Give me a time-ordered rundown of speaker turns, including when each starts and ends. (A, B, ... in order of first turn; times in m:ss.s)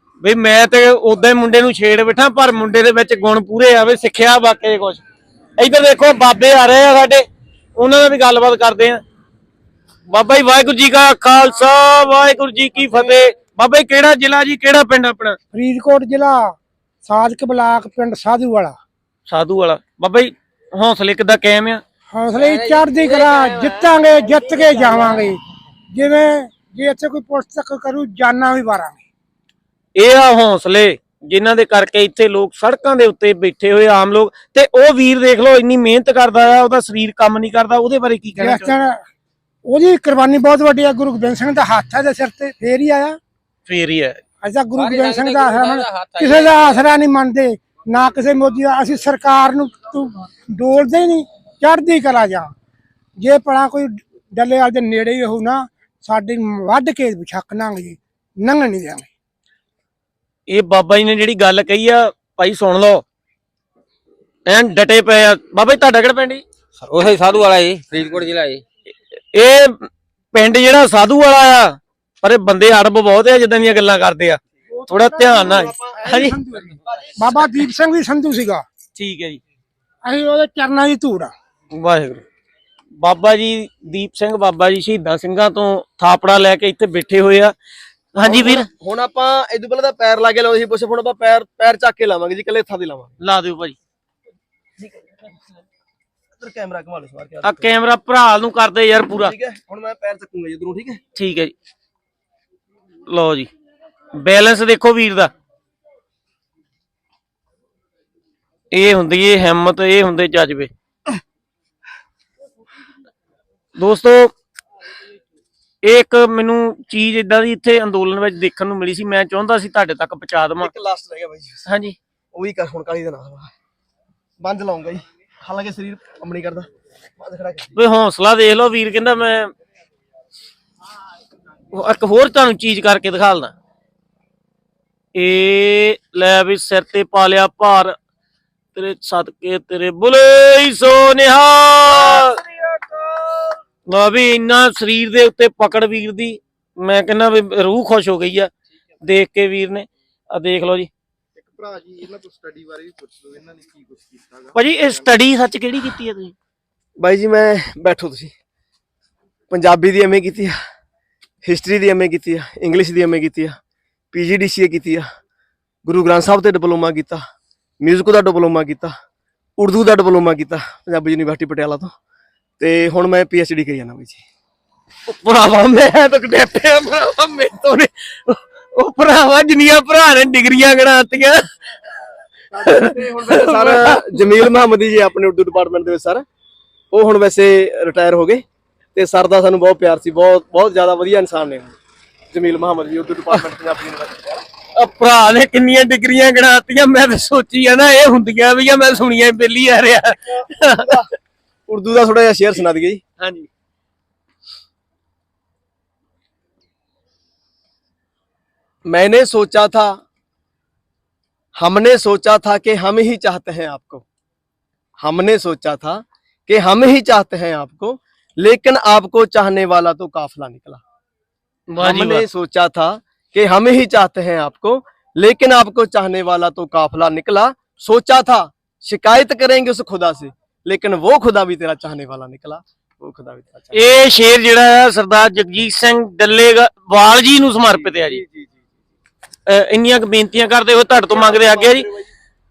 0:00.2-0:05.0 A
0:05.6-0:07.2 A
0:07.8-0:09.0 A
0:10.1-0:15.4 A
0:15.5-0:16.5 B
0:17.0-0:18.8 B
0:19.3-0:21.8 A
0:22.1-0:25.4 B
0:22.5-0:23.9 C
0:25.9-0:29.0 B
0:30.0-0:38.7 A
0:38.4-0:39.0 B
0:39.6-0:43.2 B
0:43.6-0:44.2 A
0:44.4-0:52.5 B
0:44.8-0:46.8 C
0:53.2-0:59.1 B
1:00.5-1:03.0 A
1:04.5-1:06.4 A
1:06.8-1:08.6 C
1:09.3-1:16.4 A
1:14.7-1:16.0 D
1:14.9-1:18.6 B
1:16.8-1:17.2 D
1:18.9-1:19.4 A
1:20.0-1:21.3 B
1:21.7-1:22.2 A
1:23.0-1:27.5 A
1:28.1-1:28.6 A
1:28.2-1:33.1 D
1:33.2-1:33.8 A
1:34.8-1:35.2 D
1:36.4-1:37.7 D
1:37.4-1:39.3 A
1:39.2-1:41.0 D
1:41.1-1:41.5 A
1:43.1-1:43.5 A
1:44.1-1:45.3 A
1:48.7-1:50.7 A
1:53.8-1:54.3 A
1:55.8-2:00.7 A
2:00.6-2:01.6 D
2:01.6-2:02.0 A
2:02.3-2:03.5 D
2:04.4-2:06.7 D
2:07.2-2:07.8 D
2:07.7-2:09.5 A
2:11.7-2:13.5 A
2:15.1-2:18.0 A
2:18.7-2:22.4 A
2:22.6-2:23.3 D
2:23.9-2:28.5 A
2:29.0-2:30.9 A
2:31.4-2:34.5 E
2:34.5-2:36.3 A
2:37.0-2:38.3 D
2:39.5-2:40.6 D
2:41.4-2:43.6 D
2:44.1-2:45.0 D
2:45.8-2:47.2 D
2:47.8-2:48.9 D
2:49.6-2:51.9 D
2:52.6-2:54.2 D
2:55.1-3:01.4 A
3:02.5-3:06.2 D
3:02.6-3:04.4 A
3:06.9-3:08.4 D
3:08.9-3:11.7 D
3:12.3-3:14.4 D
3:14.8-3:20.9 A
3:20.4-3:21.1 D
3:21.7-3:23.0 D
3:23.2-3:23.5 A
3:28.9-3:30.0 D
3:31.6-3:34.0 D
3:35.0-3:40.8 D
3:41.7-3:42.2 A
3:41.8-3:53.8 D
3:53.7-3:58.2 A
3:57.7-3:58.5 D
3:59.5-4:01.9 A
4:00.9-4:02.1 D